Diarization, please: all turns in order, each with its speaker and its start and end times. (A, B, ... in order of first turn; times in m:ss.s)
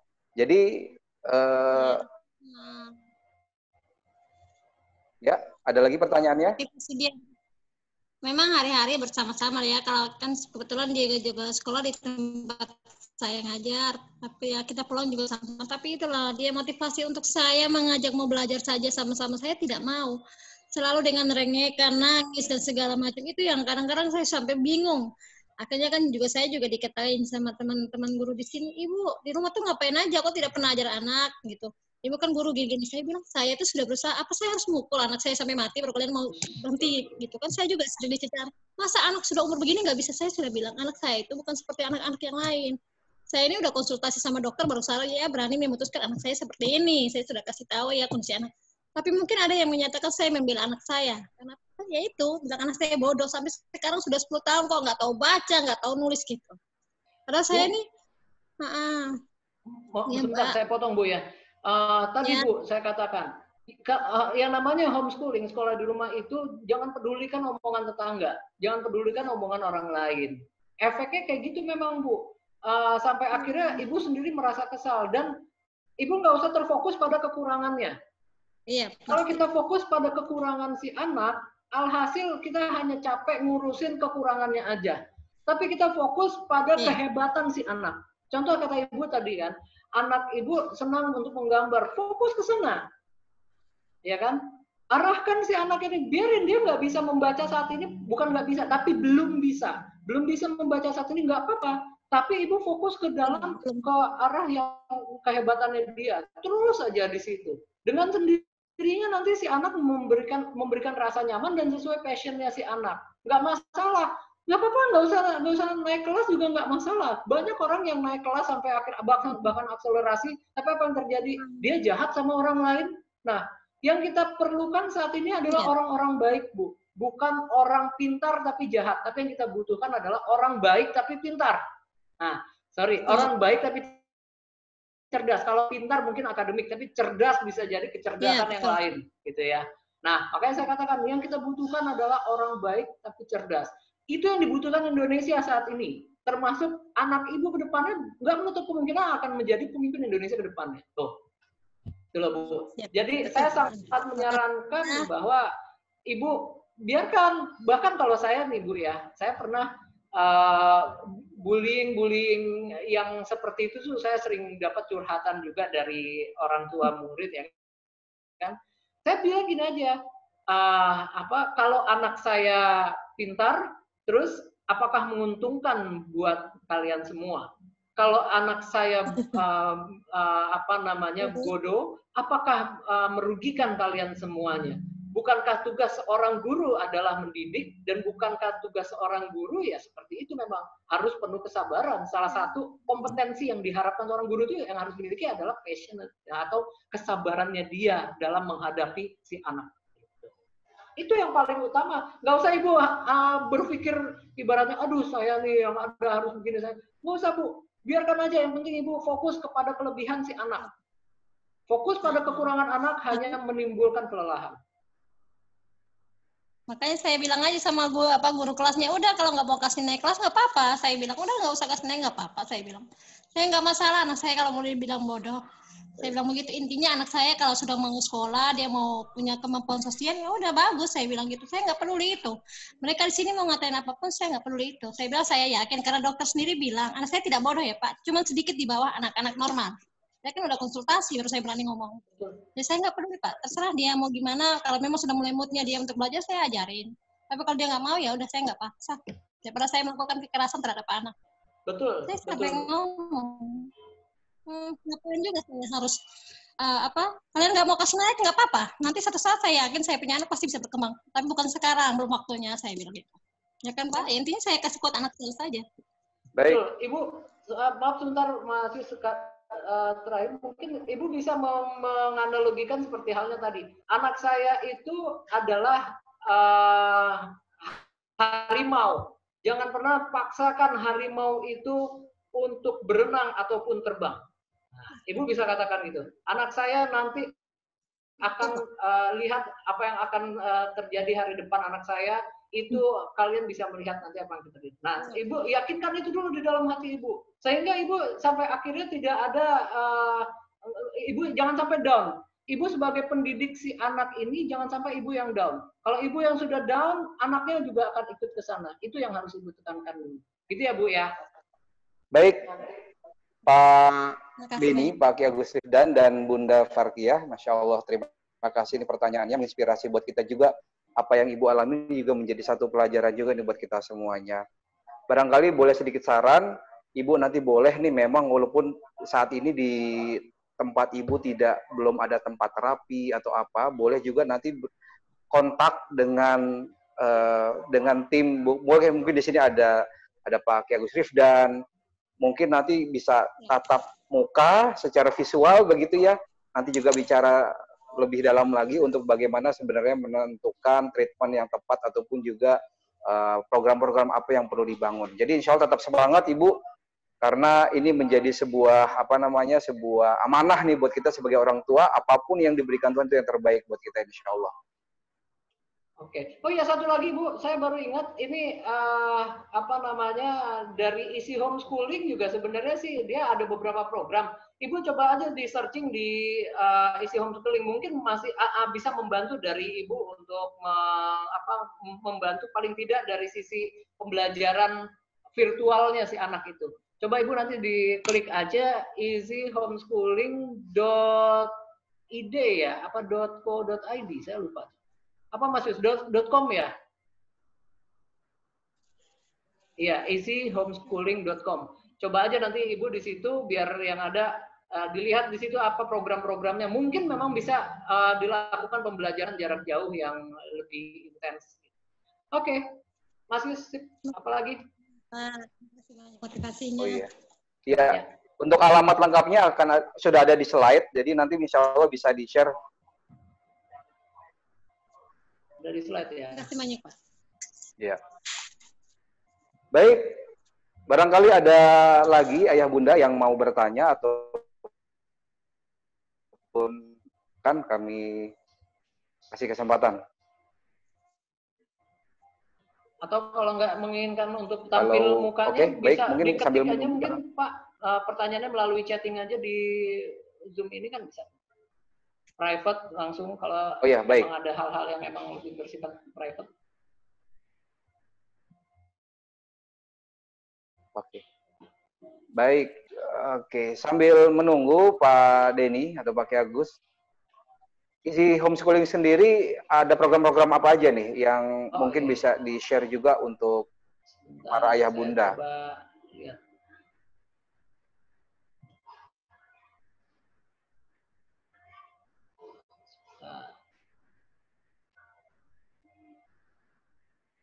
0:00.4-0:02.0 A
0:01.8-0:03.0 B
0:05.2-0:06.6 A
0:06.6-0:07.2 B
0:08.2-0:20.2 B
0:20.8-0:25.0 B
0:25.6-0:42.8 B
0:36.4-0:37.2 C
0:43.3-0:56.6 B
0:57.3-0:57.8 B
0:58.6-0:59.2 B
0:59.8-1:03.3 C
1:00.1-1:00.6 B
1:02.2-1:02.5 B
1:03.8-1:15.3 C
1:16.0-1:18.0 C
1:18.7-1:19.4 B
1:19.1-1:32.8 C
1:34.1-2:11.6 C
1:43.3-1:43.8 B
2:05.5-2:05.7 B
2:12.2-2:14.0 C
2:15.1-2:31.2 C
2:18.2-2:18.8 B
2:32.1-2:35.5 C
2:32.8-2:35.1 B
2:36.1-2:47.5 C
2:48.4-2:50.0 C
2:50.5-3:20.3 C
3:21.0-3:30.7 C
3:31.7-3:34.6 C
3:32.0-3:32.5 B
3:33.1-3:33.4 B
3:36.7-3:45.4 B
3:46.0-4:02.0 B
4:02.6-4:11.1 B
4:11.7-4:12.7 C
4:12.1-4:13.7 B
4:14.5-4:16.0 B
4:16.6-4:25.6 B
4:26.4-4:26.6 A
4:26.5-4:44.2 C
4:44.8-4:47.3 C
4:48.2-5:11.1 C
5:12.1-5:12.7 A
5:13.5-5:24.4 A
5:14.4-5:15.0 B
5:25.1-5:34.6 A
5:35.3-5:41.6 A
5:42.2-5:56.6 A
5:57.2-6:04.5 A
6:06.0-6:24.8 C
6:25.4-6:31.6 C
6:32.1-6:34.8 C
6:35.3-6:36.7 C
6:39.8-6:51.6 C
6:52.3-6:52.7 C
6:53.3-6:54.6 C
6:55.1-6:57.0 B
6:56.8-6:57.1 A
6:57.7-7:02.5 A
7:05.6-7:06.5 C
7:06.3-7:07.0 B
7:09.7-7:10.2 A
7:10.9-7:14.5 A
7:16.5-7:16.9 A
7:17.4-7:18.3 A
7:19.3-7:20.0 A
7:23.0-7:31.4 C
7:24.8-7:27.2 A
7:32.4-7:36.5 C
7:33.8-7:34.3 A
7:41.0-7:41.2 A
7:42.4-7:46.7 A
7:48.0-7:53.7 A
7:51.7-7:52.2 C
7:54.2-7:56.4 C
7:54.5-7:55.4 A
8:03.2-8:03.5 C